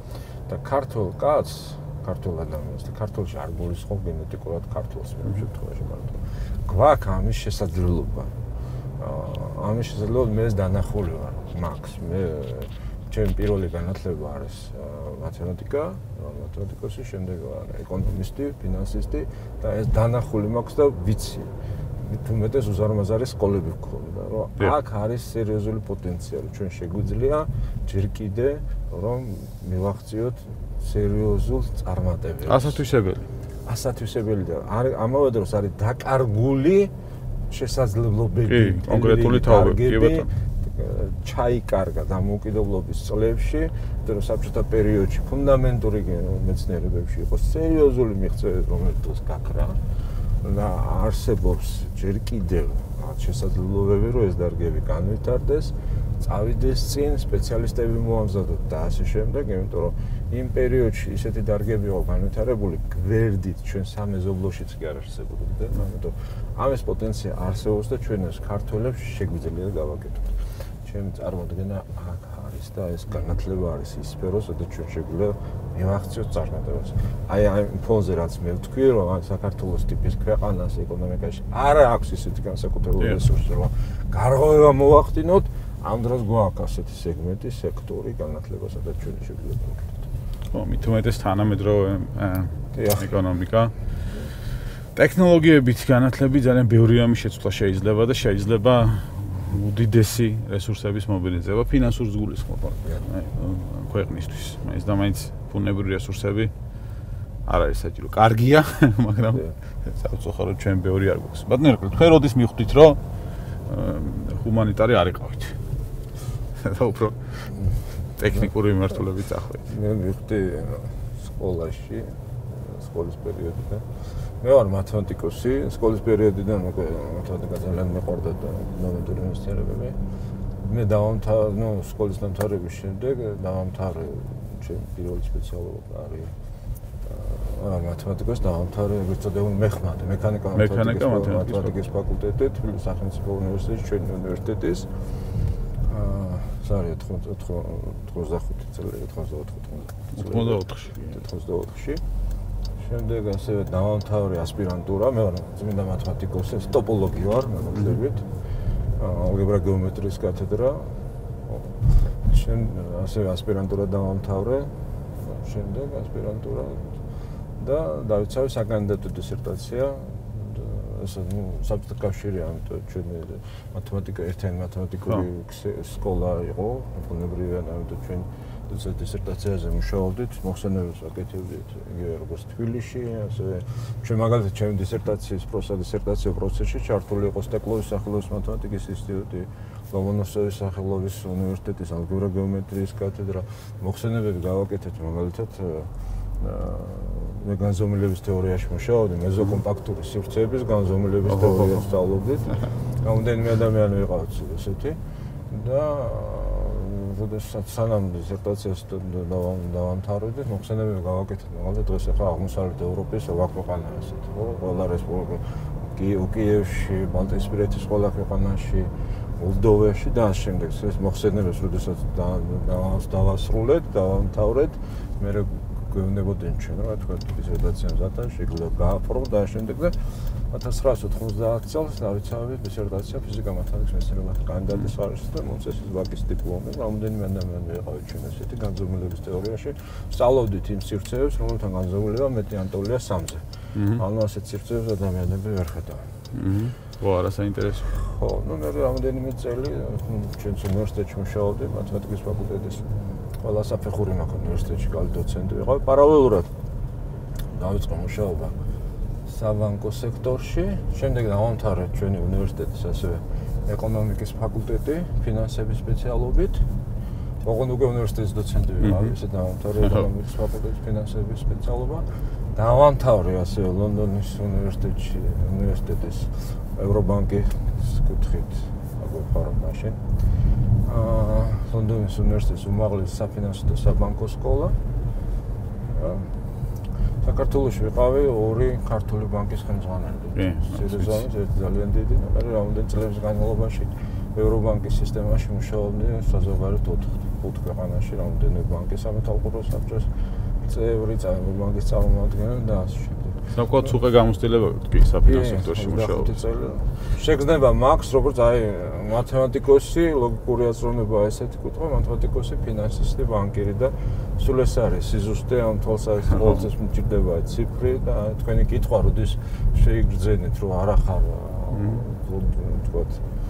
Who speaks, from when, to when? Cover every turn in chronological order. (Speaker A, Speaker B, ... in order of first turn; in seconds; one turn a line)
Speaker A: 0.5-8.3
Speaker A: 9.0-32.8
Speaker B: 32.5-33.3
Speaker A: 33.6-36.9
Speaker A: 37.5-49.8
Speaker B: 38.5-40.3
Speaker A: 50.4-90.0
Speaker B: 90.5-93.7
Speaker A: 92.7-93.1
Speaker B: 94.9-106.5
Speaker B: 107.5-113.0
Speaker B: 113.7-115.6
Speaker B: 116.6-117.6
Speaker B: 118.2-119.6
Speaker A: 119.7-130.0
Speaker A: 130.6-136.3
Speaker A: 137.1-144.9
Speaker B: 140.6-141.7
Speaker A: 145.9-152.0
Speaker B: 150.1-151.2
Speaker A: 152.8-158.3
Speaker A: 159.0-167.0
Speaker A: 167.6-205.0
Speaker B: 201.3-201.8
Speaker A: 205.5-246.1
Speaker B: 243.8-244.0
Speaker B: 246.3-247.9
Speaker A: 247.9-256.5
Speaker A: 257.5-258.6
Speaker A: 259.3-266.7
Speaker A: 267.4-280.0
Speaker B: 268.8-269.1
Speaker A: 280.8-284.8
Speaker A: 285.9-286.4
Speaker A: 287.2-300.1
Speaker B: 290.4-291.1
Speaker A: 300.6-303.4
Speaker B: 303.5-306.4
Speaker A: 305.2-323.2
Speaker B: 321.8-322.0